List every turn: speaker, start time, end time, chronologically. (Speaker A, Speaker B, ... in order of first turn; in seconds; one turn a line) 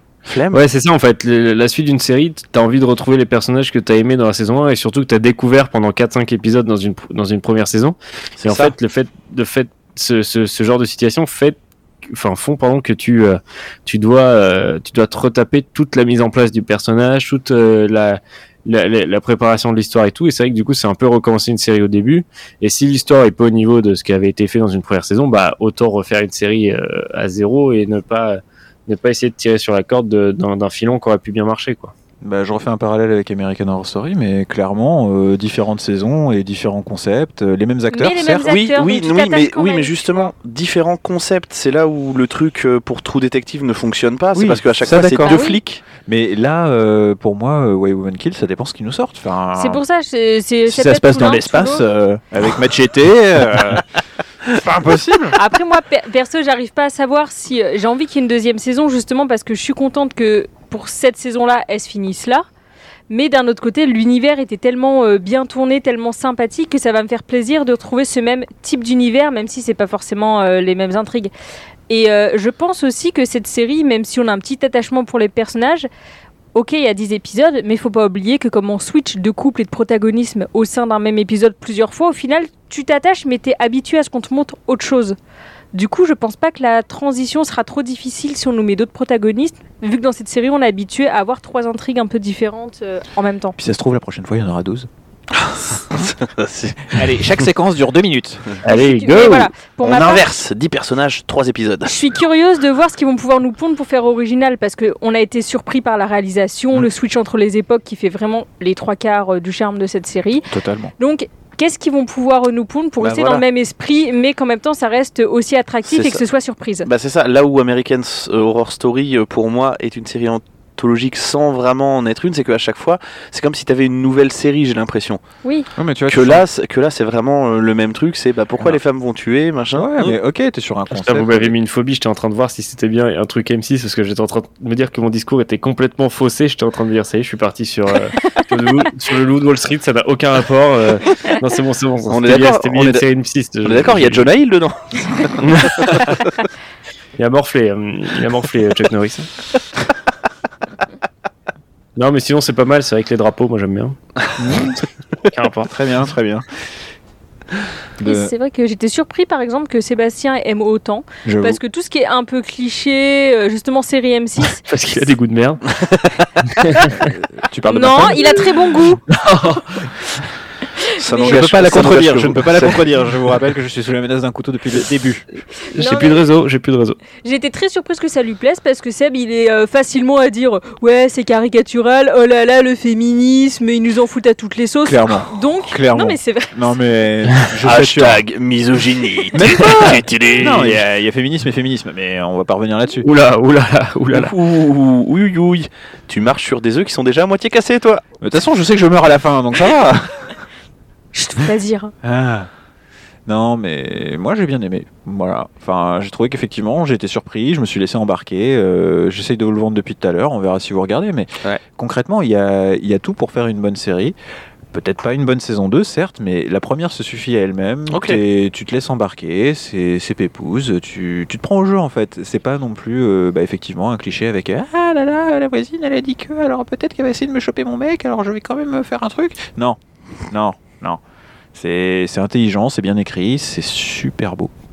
Speaker A: 0.2-0.6
Speaker B: 0.5-31.9
Speaker C: 32.2-38.5
Speaker D: 37.9-40.3
Speaker A: 38.4-45.8
Speaker C: 44.3-49.8
Speaker D: 45.2-45.6
Speaker D: 49.5-51.8
Speaker C: 50.6-53.9
Speaker C: 54.5-55.4
Speaker D: 55.3-62.5
Speaker D: 63.1-71.3
Speaker D: 71.9-75.9
Speaker D: 76.5-85.2
Speaker D: 85.7-93.5
Speaker C: 93.6-94.9
Speaker A: 95.3-97.0
Speaker C: 96.9-98.5
Speaker B: 98.6-99.5
Speaker D: 98.6-100.3
Speaker A: 99.8-102.0
Speaker D: 101.8-116.9
Speaker C: 110.5-110.9
Speaker A: 113.0-113.4
Speaker A: 115.8-116.2
Speaker A: 116.8-125.2
Speaker C: 125.8-126.4
Speaker A: 126.1-130.2
Speaker C: 129.7-131.5
Speaker B: 130.9-144.3
Speaker A: 142.1-143.0
Speaker A: 143.6-145.3
Speaker B: 145.4-146.2
Speaker B: 147.2-149.3
Speaker B: 151.9-154.0
Speaker C: 154.3-154.8
Speaker B: 155.3-155.7
Speaker C: 155.7-156.4
Speaker C: 158.0-158.3
Speaker D: 158.0-165.0
Speaker C: 161.2-161.6
Speaker B: 164.7-165.6
Speaker A: 165.8-166.2
Speaker B: 166.5-167.1
Speaker C: 166.9-168.6
Speaker D: 167.7-169.0
Speaker B: 169.1-169.8
Speaker A: 171.0-172.8
Speaker C: 171.1-175.2
Speaker D: 171.1-171.8
Speaker B: 175.7-177.0
Speaker D: 175.8-176.2
Speaker D: 177.2-186.7
Speaker C: 184.8-188.2
Speaker A: 187.6-190.8
Speaker C: 189.3-193.1
Speaker B: 193.0-194.3
Speaker A: 194.1-198.0
Speaker C: 198.2-200.4
Speaker D: 201.1-201.9
Speaker C: 202.0-202.5
Speaker C: 203.2-214.2
Speaker C: 214.7-229.8
Speaker A: 217.9-218.2
Speaker C: 230.3-231.0
Speaker C: 231.5-234.5